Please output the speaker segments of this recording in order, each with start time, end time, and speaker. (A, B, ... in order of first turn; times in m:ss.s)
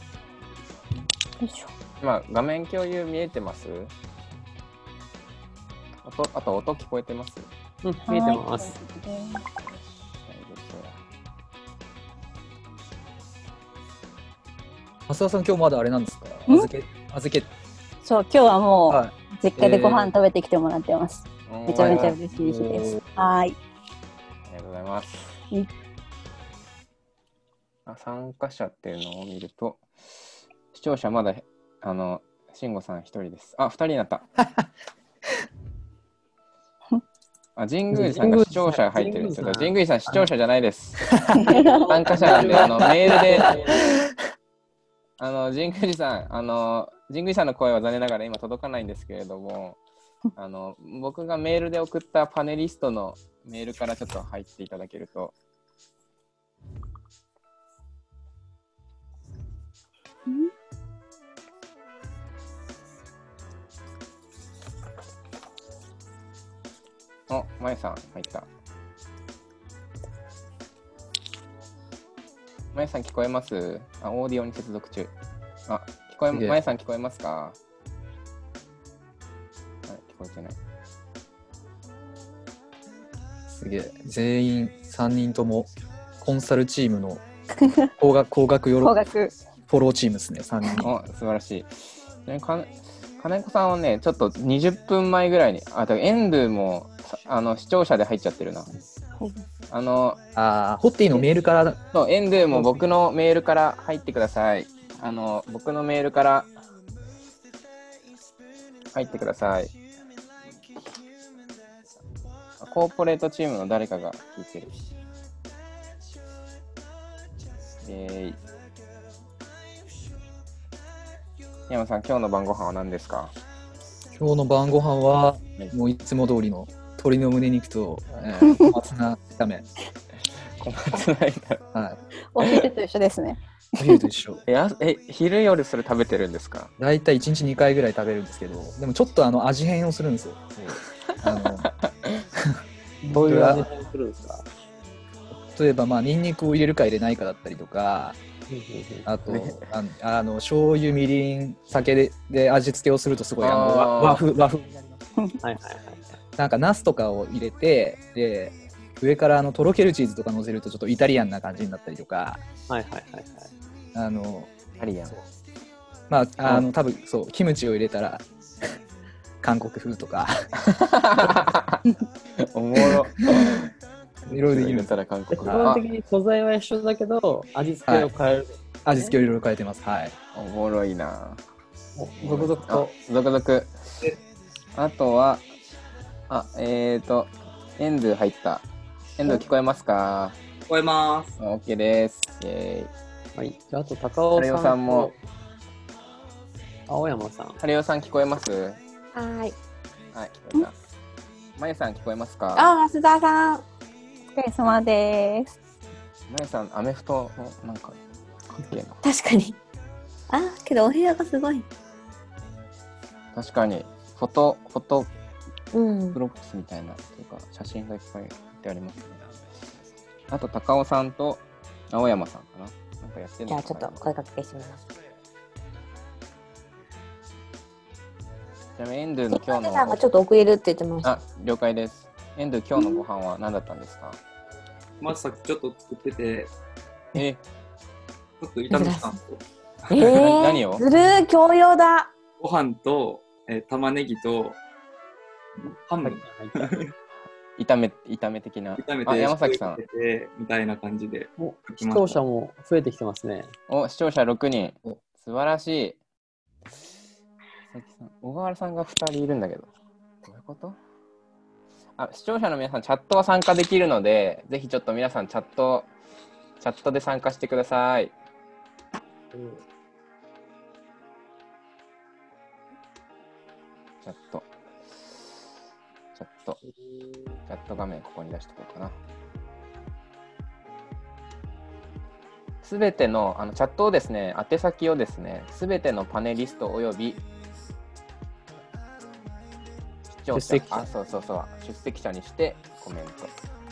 0:01.4-0:01.7 A
0:02.0-0:03.9 B
0:06.0-0:07.5 B
0:07.8-0:08.8 C
0:08.1-0:09.4 A
0:09.6-0:11.0 B
0:15.1-0:17.5 D
0:18.0-0:23.6 A
0:18.9-0:20.1 D
0:21.5-0:22.2 B
0:21.7-0:23.0 D
0:24.5-0:25.4 B
0:27.8-0:34.3 B
0:37.6-0:41.1 B
0:37.9-0:40.2 C
0:41.3-0:42.0 A
0:41.5-0:43.8 C
0:41.9-0:43.6 B
0:45.2-0:49.8 B
0:50.4-0:55.3 B
1:00.3-1:00.5 A
1:07.3-1:08.5 B
1:12.7-1:15.1 B
1:15.7-1:17.6 B
1:16.3-1:16.6 D
1:19.9-1:20.6 B
1:23.5-1:25.7 D
1:26.2-1:27.2 D
1:28.0-1:29.0 D
1:28.8-1:29.3 A
1:29.7-1:30.9 D
1:30.8-1:38.7 B
1:39.7-1:40.2 B
1:40.4-1:41.8 D
1:41.9-1:46.5 B
1:48.9-1:49.7 B
1:52.6-1:54.7 B
1:57.8-1:58.4 B
2:01.7-2:03.3 B
2:04.2-2:09.7 D
2:10.6-2:11.6 B
2:11.7-2:12.0 D
2:12.3-2:14.0 A
2:13.8-2:14.4 D
2:14.5-2:16.7 B
2:16.8-2:20.6 D
2:21.2-2:21.7 D
2:21.4-2:22.2 B
2:23.0-2:24.4 C
2:23.2-2:23.7 D
2:25.5-2:28.2 D
2:28.5-2:29.0 C
2:29.0-2:34.7 D
2:29.3-2:29.6 B
2:33.4-2:34.2 B
2:35.4-2:36.1 C
2:36.4-2:42.4 D
2:42.7-2:43.5 C
2:43.9-2:44.5 D
2:44.8-2:45.1 B
2:46.1-2:48.2 D
2:49.4-2:50.5 D
2:50.6-2:51.8 B
2:52.4-2:53.7 B
2:53.4-2:53.6 D
2:54.3-2:55.6 D
2:54.5-2:55.8 B
2:55.3-2:59.1 C
2:58.8-3:00.2 D
3:00.3-3:01.4 B
3:02.0-3:02.9 C
3:02.2-3:04.0 B
3:04.7-3:05.5 B
3:06.3-3:08.6 B
3:09.2-3:10.4 B
3:10.7-3:11.4 E
3:11.4-3:12.9 B
3:13.3-3:15.2 C
3:14.3-3:15.1 B
3:16.9-3:17.6 C
3:17.6-3:18.8 B
3:19.1-3:19.5 F
3:20.1-3:20.7 B
3:21.6-3:22.7 B
3:22.5-3:23.6 F
3:24.3-3:25.5 A
3:26.3-3:28.0 B
3:28.5-3:29.0 B
3:29.0-3:29.6 F
3:30.3-3:31.7 F
3:33.3-3:35.1 B
3:35.7-3:36.2 F
3:36.1-3:39.4 B
3:40.3-3:44.0 B
3:43.5-3:44.8 F
3:48.8-3:50.0 B
3:49.3-3:51.1 F
3:51.0-3:54.2 B
3:52.8-3:53.0 F
3:55.0-3:56.5 E
3:57.2-3:57.4 B
3:58.4-3:59.4 E
3:58.7-3:59.1 F
3:59.9-4:00.2 E
3:59.9-4:02.1 F
4:00.0-4:00.8 B
4:02.4-4:04.6 E
4:05.9-4:06.9 E
4:06.0-4:06.7 C
4:07.6-4:09.8 B
4:08.8-4:12.2 E
4:11.4-4:13.5 C
4:13.7-4:16.0 B
4:17.7-4:19.7 B
4:20.2-4:20.8 B
4:22.0-4:25.9 B
4:26.6-4:28.1 B
4:34.0-4:34.5 B
4:36.1-4:36.6 B
4:37.5-4:39.0 B
4:42.6-4:47.2 B
4:50.1-4:53.3 B
4:50.3-4:50.9 C